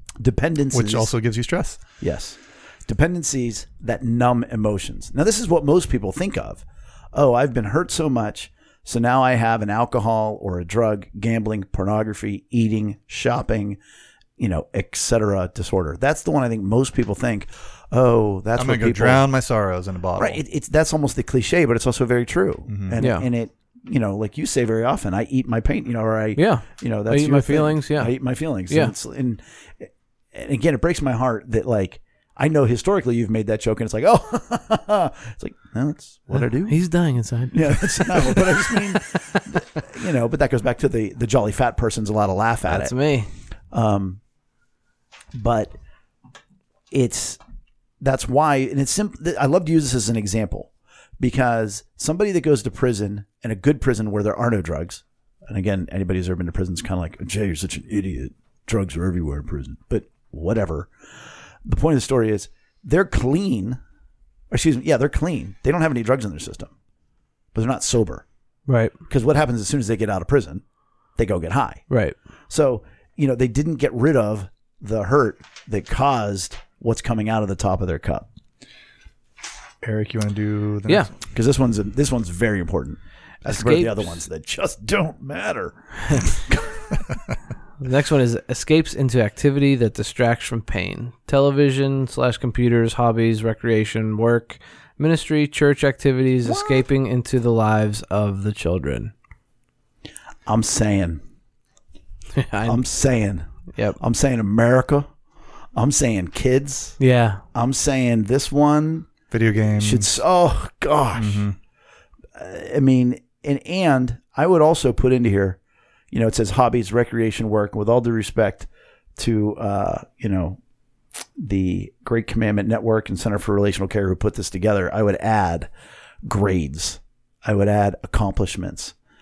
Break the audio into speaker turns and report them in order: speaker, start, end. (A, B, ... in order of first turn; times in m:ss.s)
0:00.2-0:01.1 A
0:00.7-0:01.8 B
0:02.0-0:13.8 A
0:14.4-0:19.2 A
0:18.6-0:20.4 B
0:20.2-0:36.8 A
0:22.7-0:23.0 B
0:23.0-0:23.3 C
0:26.4-0:28.2 C
0:36.6-0:38.8 C
0:37.5-0:42.9 A
0:42.7-0:43.3 C
0:43.7-0:44.2 A
0:45.3-0:45.8 A
0:46.9-0:47.4 A
0:48.0-1:00.9 A
1:01.6-1:03.8 A
1:04.5-1:06.7 A
1:07.5-1:08.2 A
1:08.7-1:09.0 C
1:09.1-1:10.6 A
1:11.2-1:11.8 A
1:11.9-1:12.2 C
1:12.5-1:18.3 A
1:19.8-1:21.2 B
1:21.3-1:26.8 A
1:23.5-1:24.2 C
1:27.8-1:39.1 C
1:36.5-1:36.8 A
1:40.5-1:41.2 A
1:42.4-1:42.8 C
1:42.6-1:45.1 A
1:43.7-1:44.0 C
1:45.8-1:47.0 A
1:47.0-1:47.4 C
1:47.5-1:49.1 A
1:49.3-1:50.1 B
1:49.8-1:51.5 A
1:51.2-1:51.6 B
1:52.4-1:55.6 A
1:56.1-2:00.6 A
2:01.4-2:05.7 A
2:06.2-2:09.0 A